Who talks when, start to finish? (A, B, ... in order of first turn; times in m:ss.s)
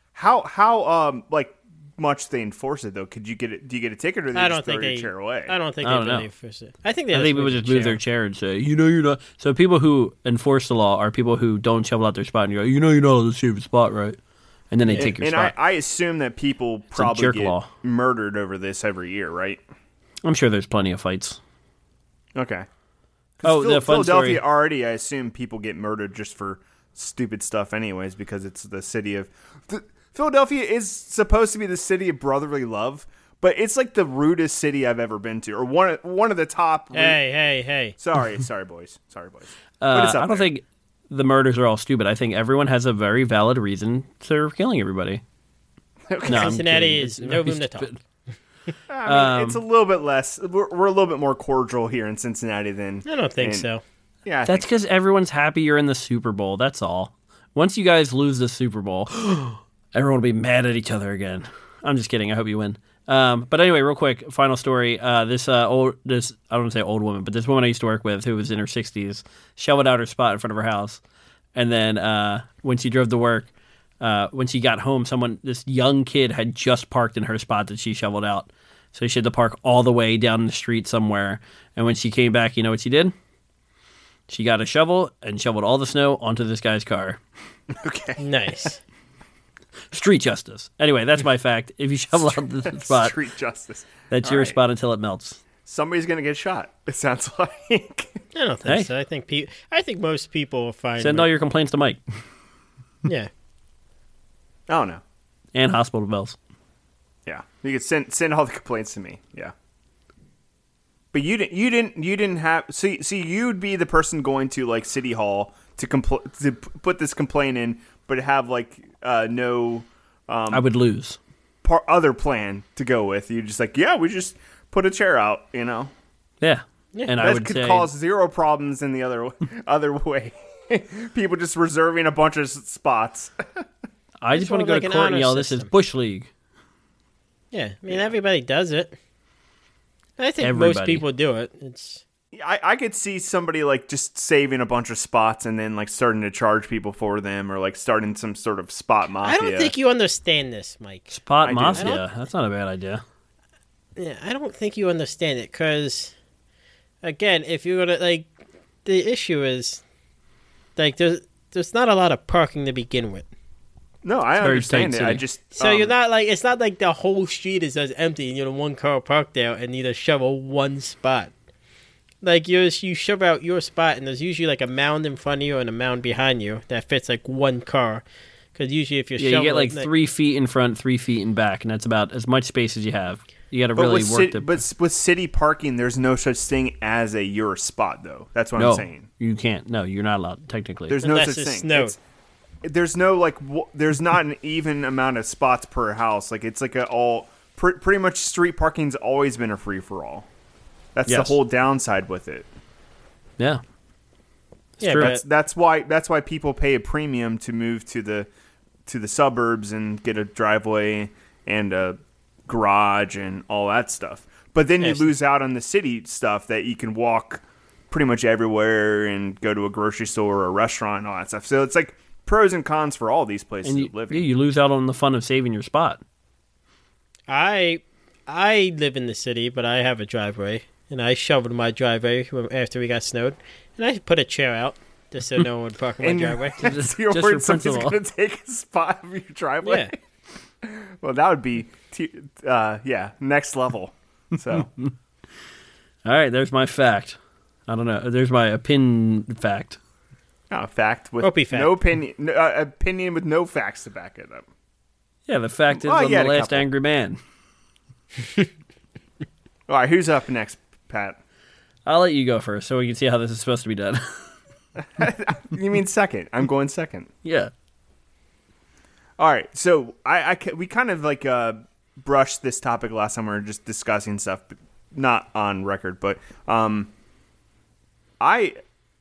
0:00.2-0:05.5 A
0:04.4-0:08.0 B
0:05.8-0:06.3 C
0:07.1-0:14.2 C
0:14.7-0:15.5 C
0:14.9-0:15.1 B
0:15.0-0:19.6 A
0:17.0-0:17.7 C
0:20.2-0:21.4 C
0:22.4-0:22.7 A
0:23.4-0:37.2 A
0:23.4-0:24.4 C
0:36.9-0:38.0 B
0:38.0-0:40.5 A
0:39.8-0:45.2 C
0:46.1-0:46.6 A
0:46.3-0:47.9 B
0:46.3-0:48.0 C
0:48.9-0:53.7 A
0:49.0-0:49.6 C
0:53.1-0:53.8 B
0:54.2-0:54.7 A
0:54.5-1:11.0 C
1:11.6-1:13.5 C
1:14.0-1:23.1 C
1:24.3-1:27.2 C
1:27.7-1:28.7 A
1:28.2-1:28.8 B
1:29.9-1:33.2 C
1:32.2-1:34.6 A
1:34.1-1:35.4 C
1:35.7-1:38.2 A
1:38.3-1:41.3 B
1:41.0-1:42.0 C
1:44.7-1:45.0 A
1:45.5-1:46.4 C
1:47.3-1:49.5 A
1:51.1-2:00.6 A
2:00.5-2:01.2 C
2:01.6-2:05.9 A
2:06.4-2:07.9 C
2:07.2-2:13.6 A
2:14.2-2:16.3 C
2:14.3-2:15.7 B
2:17.5-2:19.0 B
2:20.2-2:22.0 B
2:20.4-2:21.0 C
2:22.3-2:29.7 A
2:29.2-2:31.1 B
2:31.1-2:33.0 C
2:31.4-2:32.0 A
2:31.7-2:32.0 B
2:34.0-2:36.2 B
2:37.0-2:38.3 B
2:38.8-2:39.8 B
2:40.8-2:43.3 B
2:44.0-2:45.9 A
2:44.4-2:45.2 C
2:45.5-2:51.3 B
2:52.2-2:58.0 B
2:58.6-2:59.9 B
2:59.2-3:04.5 C
3:03.8-3:09.1 A
3:08.6-3:11.0 C
3:10.9-3:12.0 A
3:11.0-3:12.0 B
3:12.6-3:20.3 A
3:21.0-3:22.5 A
3:21.1-3:21.4 C
3:24.8-3:25.1 C
3:24.8-3:25.2 B
3:24.9-3:28.3 A
3:28.9-3:44.3 A
3:34.8-3:35.1 B
3:43.6-3:46.0 C
3:47.3-3:56.7 B
3:56.0-4:00.0 A
3:56.6-3:58.0 C
3:59.6-3:59.9 B
4:00.6-4:04.7 A
4:06.0-4:09.8 C
4:10.5-4:14.5 A
4:11.2-4:11.8 B
4:15.3-4:17.2 C
4:15.7-4:16.7 A
4:19.7-4:21.2 A
4:21.9-4:24.2 C
4:24.8-4:27.1 A
4:27.2-4:27.5 C
4:29.2-4:36.9 A
4:38.2-4:38.6 A